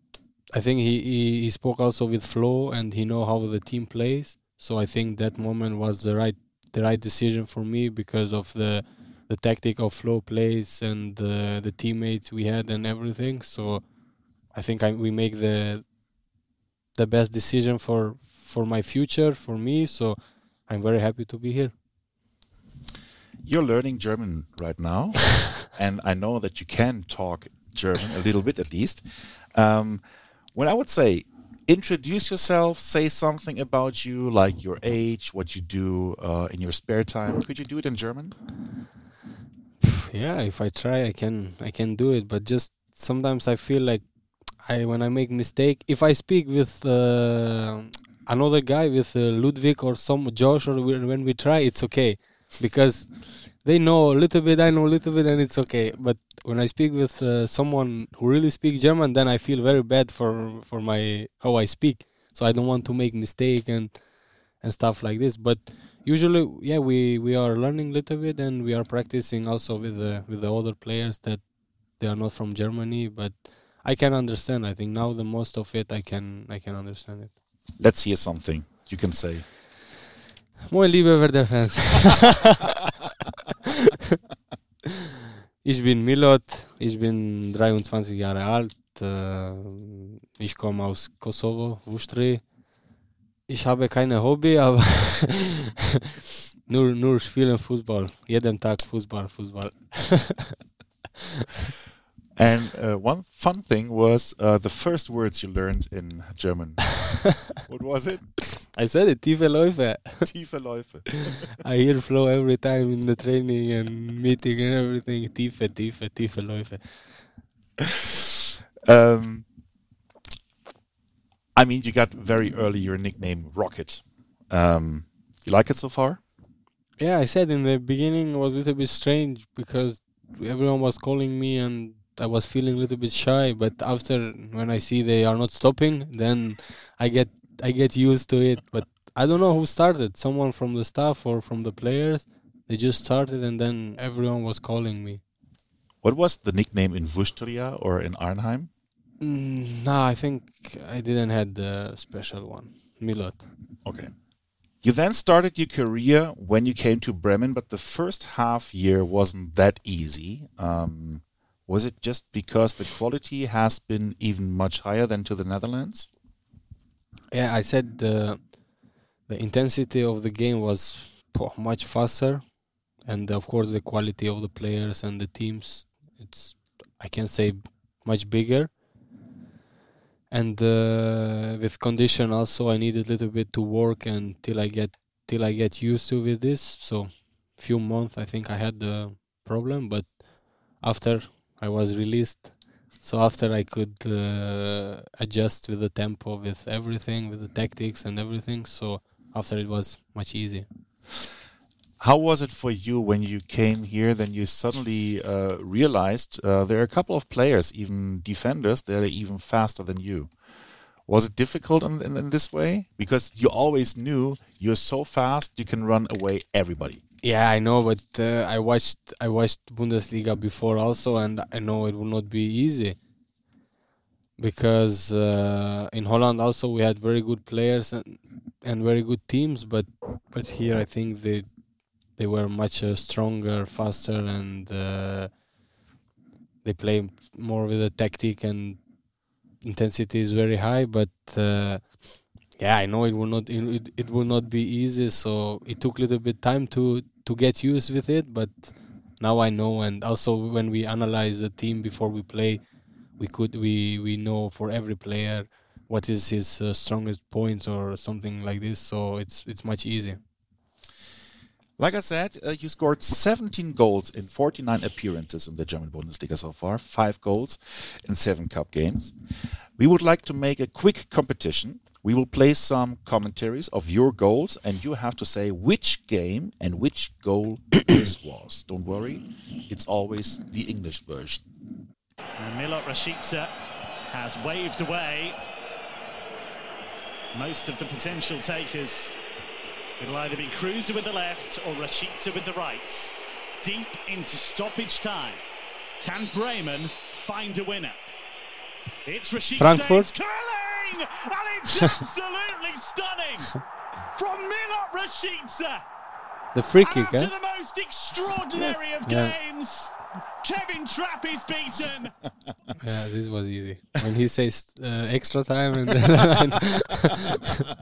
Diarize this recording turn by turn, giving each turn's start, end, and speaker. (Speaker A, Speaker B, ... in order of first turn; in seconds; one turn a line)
Speaker A: 0.5-13.9
Speaker A: 14.5-15.9
Speaker A: 16.9-21.7
Speaker B: 23.4-29.0
Speaker B: 29.5-30.0
Speaker B: 30.5-38.3
Speaker A: 39.8-44.0
Speaker A: 44.6-77.3
Speaker B: 77.8-79.5
Speaker A: 80.7-82.6
Speaker A: 85.6-92.5
Speaker A: 93.5-95.6
Speaker A: 96.7-100.5
Speaker B: 102.3-108.4
Speaker A: 108.7-110.5
Speaker B: 110.2-111.5
Speaker A: 111.4-117.2
Speaker B: 118.8-119.5
Speaker B: 121.5-126.2
Speaker A: 127.0-145.2
Speaker B: 146.0-148.7
Speaker A: 149.2-153.4
Speaker B: 153.8-154.1
Speaker B: 154.8-166.1
Speaker A: 167.3-168.6
Speaker A: 169.2-178.8
Speaker A: 180.3-200.7
Speaker B: 202.0-210.3
Speaker B: 211.1-217.0
Speaker A: 217.2-223.0
Speaker A: 224.4-231.5
Speaker A: 232.1-235.4
Speaker A: 236.6-238.8
Speaker A: 239.6-252.6
Speaker A: 253.2-260.2
Speaker B: 261.8-269.1
Speaker B: 269.8-281.5
Speaker C: 282.4-283.5
Speaker C: 284.1-285.4
Speaker C: 287.3-289.1
Speaker C: 290.0-295.4
Speaker C: 296.0-298.1
Speaker C: 299.1-303.6
Speaker A: 299.5-300.1
Speaker C: 304.1-305.8
Speaker A: 306.5-307.3
Speaker C: 306.8-312.1
Speaker A: 309.0-309.4
Speaker A: 312.8-317.5